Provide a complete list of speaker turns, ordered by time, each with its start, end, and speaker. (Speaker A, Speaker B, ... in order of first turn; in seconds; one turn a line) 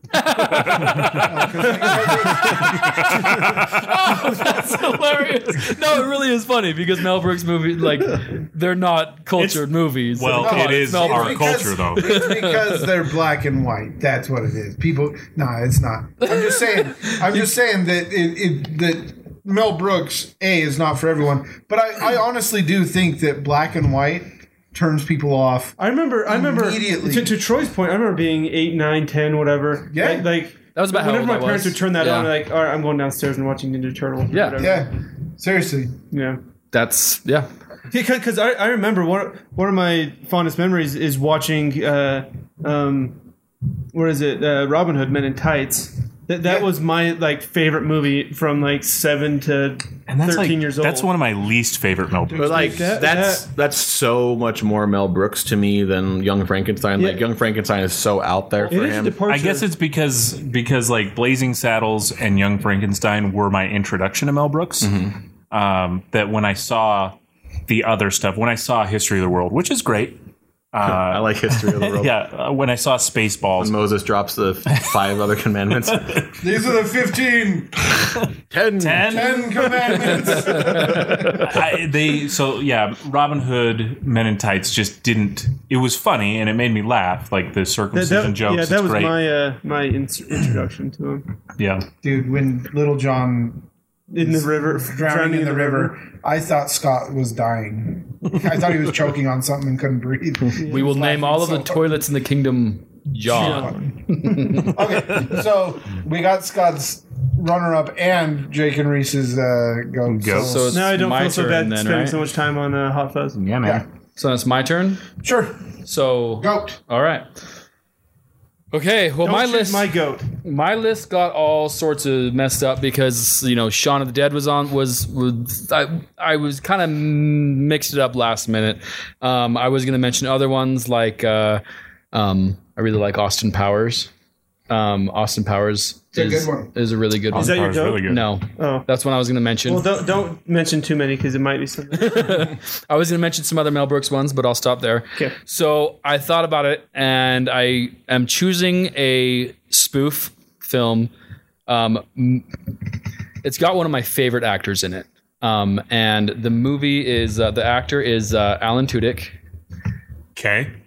Speaker A: 0.1-1.4
Speaker B: 0.7-1.3
Speaker C: 1.2-3.0
Speaker A: 2.0-12.8
Speaker B: 2.5-4.3
Speaker B: 9.4-12.2
Speaker C: 10.3-27.4
Speaker A: 16.2-17.2
Speaker D: 25.8-34.9
Speaker C: 29.9-30.3
Speaker A: 30.8-32.3
Speaker A: 34.3-34.6
Speaker C: 34.6-36.0
Speaker D: 36.1-36.4
Speaker A: 36.7-37.5
Speaker D: 37.9-43.2
Speaker D: 43.9-51.1
Speaker B: 50.1-52.8
Speaker C: 52.3-53.0
Speaker E: 52.4-59.2
Speaker D: 52.5-53.5
Speaker D: 57.0-57.2
Speaker D: 58.6-59.7
Speaker B: 59.3-73.8
Speaker E: 64.8-65.2
Speaker E: 70.8-72.1
Speaker E: 73.6-76.3
Speaker B: 74.7-75.0
Speaker B: 75.9-76.4
Speaker C: 76.4-78.2
Speaker E: 78.5-79.4
Speaker B: 78.8-89.2
Speaker C: 79.0-81.6
Speaker D: 87.9-91.3
Speaker B: 91.6-91.9
Speaker C: 92.0-93.7
Speaker D: 94.1-96.0
Speaker C: 94.2-102.0
Speaker D: 100.6-100.9
Speaker A: 100.7-104.8
Speaker D: 103.3-103.8
Speaker C: 103.3-110.8
Speaker B: 110.1-110.6
Speaker A: 110.3-112.2
Speaker D: 110.7-113.5
Speaker B: 113.4-113.8
Speaker A: 114.2-115.1
Speaker C: 115.2-115.6
Speaker A: 115.8-117.3
Speaker C: 116.4-116.8
Speaker A: 118.7-134.1
Speaker D: 119.2-120.3
Speaker A: 134.7-139.9
Speaker C: 136.1-136.7
Speaker D: 137.3-138.9
Speaker B: 137.3-138.2
Speaker D: 139.7-142.5
Speaker A: 142.0-151.1
Speaker A: 151.7-152.5
Speaker A: 153.4-159.4
Speaker B: 160.3-160.8